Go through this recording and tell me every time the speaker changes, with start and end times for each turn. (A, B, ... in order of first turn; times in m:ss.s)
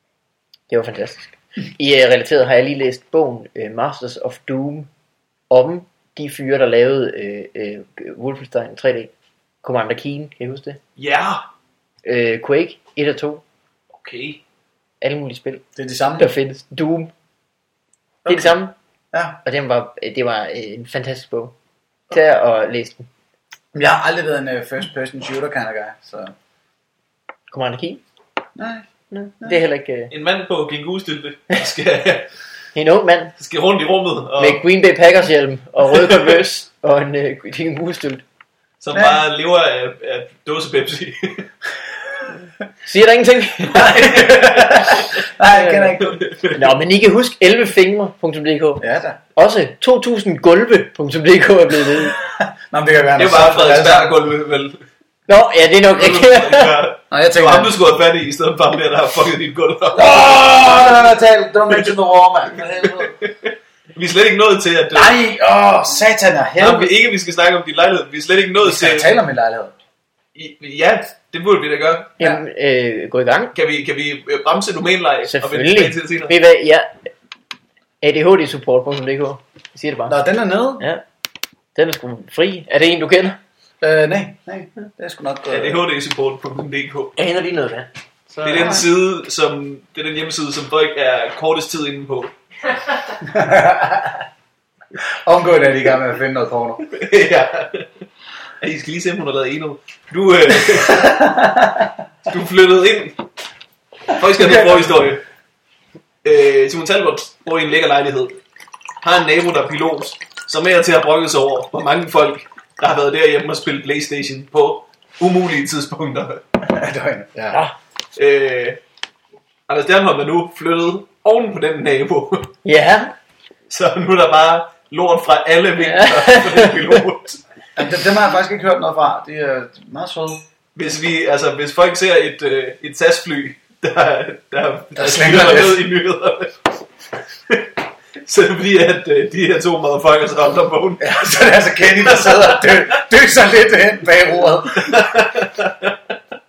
0:00.7-0:04.9 A
0:05.5-0:09.1 A
0:09.6-0:10.8 A
0:11.0-0:11.4 B
0:12.0-0:13.4 A
0:13.9-0:14.4 B
0:15.0-0:15.6 A
0:15.8-0:16.3 C
0:16.2-0:17.1 A
0:18.2-0:18.5 C
0:18.3-0:18.7 A
0:19.1-0:19.4 C
0:19.4-0:21.5 A
0:22.1-0:23.1 A
0:23.7-0:26.3 C
0:27.5-0:28.0 A
0:28.6-0:28.9 C
0:29.1-0:30.1 A
0:30.1-0:32.3 B
0:32.7-0:33.3 A
0:33.4-0:34.6 B
0:34.4-0:38.2 A
0:35.9-0:36.4 B
0:38.8-0:41.5 B
0:38.9-0:39.2 C
0:42.8-0:44.0 A
0:43.7-0:45.0 B
0:43.7-0:46.2 C
0:45.5-0:46.0 A
0:46.0-0:46.7 B
0:46.5-0:48.8 A
0:48.8-0:49.2 C
0:49.4-0:52.2 A
0:52.2-0:54.2 C
0:53.2-0:54.8 B
0:55.3-0:56.8 A
0:55.9-1:00.9 B
0:57.1-0:57.7 C
0:59.9-1:03.1 C
1:02.8-1:05.2 B
1:04.9-1:06.9 C
1:06.6-1:09.2 B
1:08.6-1:09.7 C
1:10.3-1:12.1 B
1:12.2-1:13.5 A
1:13.5-1:16.3 B
1:15.3-1:16.9 A
1:18.0-1:20.2 A
1:20.1-1:20.8 C
1:21.7-1:23.4 A
1:23.8-1:25.8 C
1:25.5-1:27.1 B
1:27.2-1:28.8 A
1:28.4-1:32.3 B
1:33.2-1:34.2 C
1:35.0-1:36.8 C
1:36.9-1:38.0 B
1:38.6-1:41.2 B
1:40.7-1:41.9 C
1:42.3-1:43.2 B
1:44.1-1:45.2 B
1:44.3-1:44.9 C
1:46.2-1:48.4 B
1:49.0-1:56.4 B
1:56.6-1:57.6 C
1:58.2-1:58.8 B
1:59.7-2:02.5 B
2:02.6-2:03.1 A
2:03.7-2:07.4 B
2:05.8-2:07.0 A
2:07.8-2:10.4 C
2:10.8-2:16.8 B
2:14.9-2:15.8 C
2:18.2-2:22.8 B
2:21.0-2:25.1 C
2:24.8-2:25.9 B